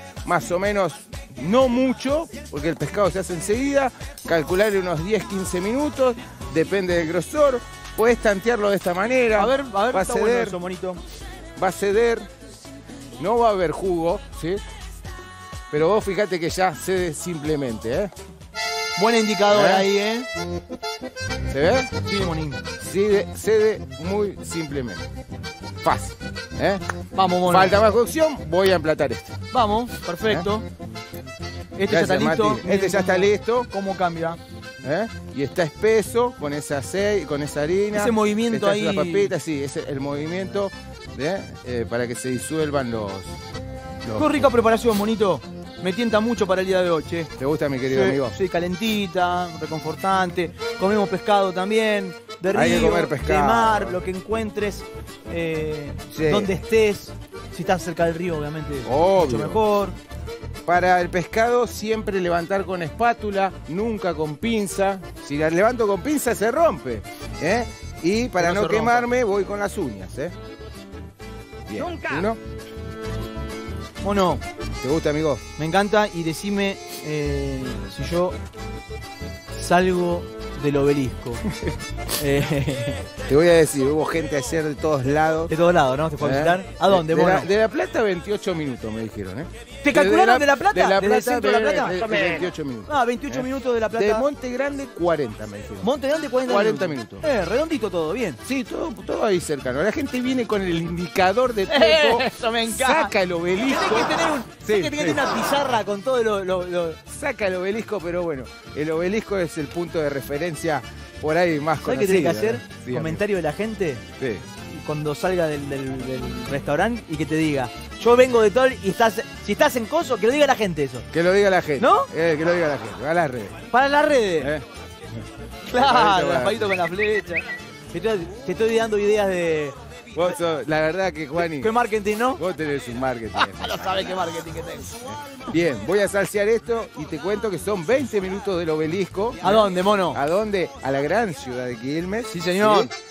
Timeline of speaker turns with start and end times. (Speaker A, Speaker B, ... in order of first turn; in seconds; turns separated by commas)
Speaker A: 0.2-10.6, Speaker B: 9.4-11.0, Speaker A: 11.6-12.3, Speaker A: 13.2-14.6, Speaker A: 15.7-18.1, Speaker B: 19.0-20.3, Speaker A: 19.5-19.9, Speaker A: 21.5-21.9, Speaker B: 22.0-22.6, Speaker A: 22.8-25.0, Speaker A: 25.8-26.8, Speaker B: 27.1-27.8, Speaker A: 27.4-29.4, Speaker B: 29.5-30.7, Speaker B: 31.8-34.4, Speaker A: 31.9-33.7, Speaker A: 34.8-43.4, Speaker B: 37.9-39.3, Speaker A: 44.0-44.5, Speaker B: 44.2-47.3, Speaker A: 47.4-48.3, Speaker B: 47.9-60.0, Speaker A: 52.5-54.0, Speaker A: 56.1-56.5, Speaker A: 58.9-59.6, Speaker A: 60.7-70.3, Speaker B: 68.4-69.1, Speaker A: 71.7-72.4, Speaker B: 74.0-74.4, Speaker A: 74.8-75.4, Speaker B: 75.6-78.3, Speaker B: 79.5-81.4, Speaker B: 82.2-83.0, Speaker A: 83.3-85.5, Speaker B: 85.5-87.5, Speaker A: 86.2-95.9, Speaker B: 89.8-92.1, Speaker B: 92.9-94.3, Speaker B: 95.8-98.4, Speaker A: 96.5-97.2, Speaker A: 98.4-105.3, Speaker B: 101.7-107.0, Speaker A: 107.1-113.2, Speaker B: 111.8-114.0, Speaker A: 114.2-114.5, Speaker B: 114.7-121.0, Speaker A: 121.1-123.6, Speaker B: 121.8-122.1, Speaker B: 123.7-124.5, Speaker A: 124.4-124.7, Speaker B: 125.7-129.8, Speaker A: 125.7-126.7, Speaker A: 130.1-131.7, Speaker B: 131.4-132.4, Speaker A: 132.4-134.2, Speaker B: 133.3-135.0, Speaker A: 135.1-142.9, Speaker B: 139.4-140.2, Speaker B: 142.3-142.9